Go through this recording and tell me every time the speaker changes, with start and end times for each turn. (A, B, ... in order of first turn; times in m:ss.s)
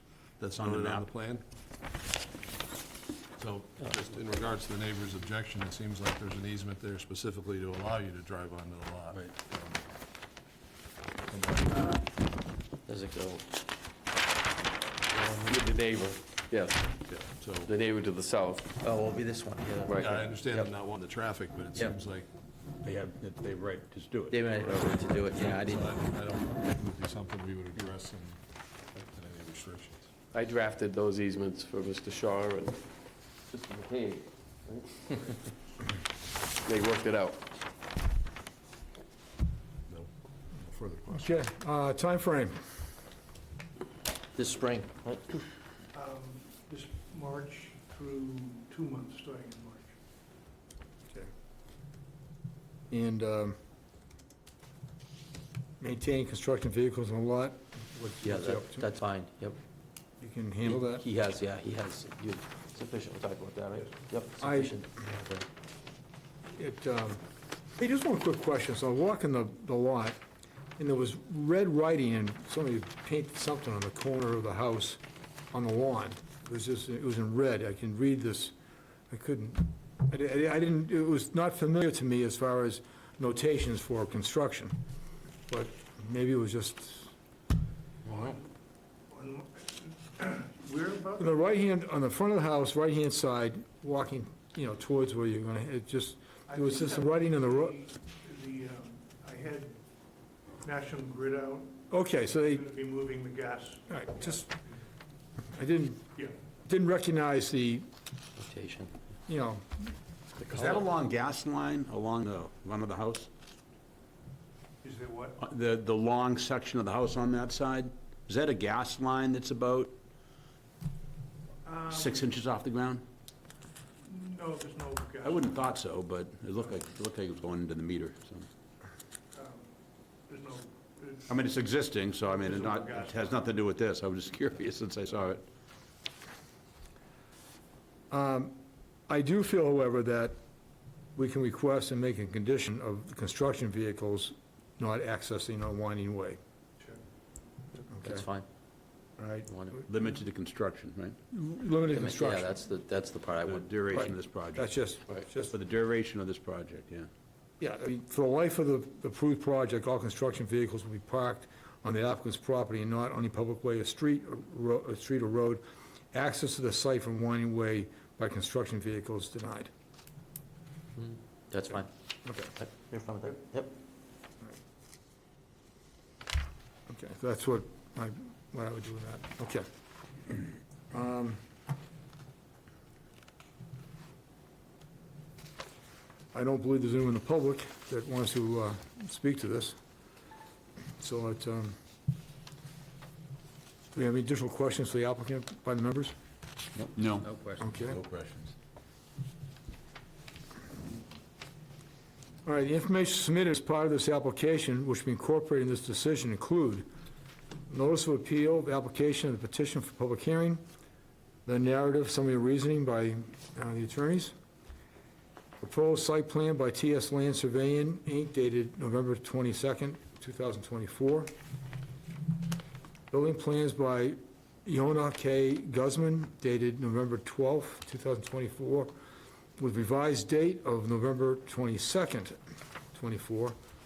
0:00.4-0:01.1 A
0:00.6-0:01.4 B
0:03.4-0:09.8 B
0:03.8-0:04.3 C
0:11.2-0:12.0 B
0:12.8-0:13.5 C
0:15.2-0:17.0 D
0:17.1-0:17.7 B
0:17.6-0:18.7 D
0:18.7-0:20.7 C
0:19.9-0:22.2 B
0:22.8-0:24.4 A
0:24.2-0:26.1 C
0:24.6-0:24.9 D
0:25.2-0:28.4 B
0:29.0-0:30.1 B
0:30.3-0:32.8 D
0:33.5-0:35.3 D
0:36.6-0:37.4 D
0:39.9-0:41.3 B
0:41.1-0:42.6 E
0:44.4-0:45.2 C
0:45.9-0:49.9 F
0:52.9-0:53.6 E
0:55.8-0:58.9 E
0:58.2-0:59.6 C
1:00.2-1:01.0 E
1:00.6-1:05.5 C
1:04.4-1:04.8 E
1:06.5-1:07.2 E
1:07.8-1:10.2 E
1:10.8-1:15.0 E
1:15.5-1:18.5 E
1:19.1-1:24.8 E
1:25.5-1:27.1 E
1:28.1-1:28.4 E
1:29.1-1:31.4 F
1:31.2-1:37.8 E
1:36.5-1:39.8 F
1:40.6-1:44.6 F
1:41.9-1:42.7 E
1:43.9-1:44.5 E
1:45.5-1:46.1 E
1:46.6-1:47.9 E
1:48.4-1:48.9 C
1:49.3-1:49.9 E
1:50.4-1:50.9 C
1:50.5-1:53.3 A
1:54.8-1:55.4 F
1:55.4-2:00.0 A
2:01.6-2:02.2 F
2:01.9-2:03.0 A
2:04.0-2:05.6 F
2:05.2-2:08.4 A
2:09.3-2:09.7 F
2:10.3-2:11.3 F
2:11.3-2:15.4 A
2:12.3-2:13.5 F
2:18.1-2:20.4 E
2:21.2-2:26.4 E
2:27.9-2:28.2 E
2:27.9-2:28.5 C
2:29.2-2:29.5 E
2:29.4-2:29.8 C
2:29.9-2:31.2 A
2:31.3-2:32.4 E
2:31.9-2:33.9 C
2:33.4-2:34.7 A
2:33.9-2:35.5 E
2:35.4-2:37.1 A
2:37.6-2:49.7 E
2:51.0-2:51.9 C
2:52.2-2:52.5 E
2:52.6-2:53.7 C
2:56.9-2:59.6 E
3:00.9-3:01.4 E
3:06.3-3:09.8 E
3:11.0-3:11.8 E
3:13.9-3:16.1 E
3:16.8-3:17.5 C
3:16.9-3:18.5 A
3:17.6-3:18.0 E
3:22.4-3:26.9 E
3:27.7-3:30.6 E
3:31.4-3:34.3 E
3:35.6-3:41.3 E
3:43.1-3:48.9 E
3:49.6-3:52.4 E
3:52.9-3:53.6 E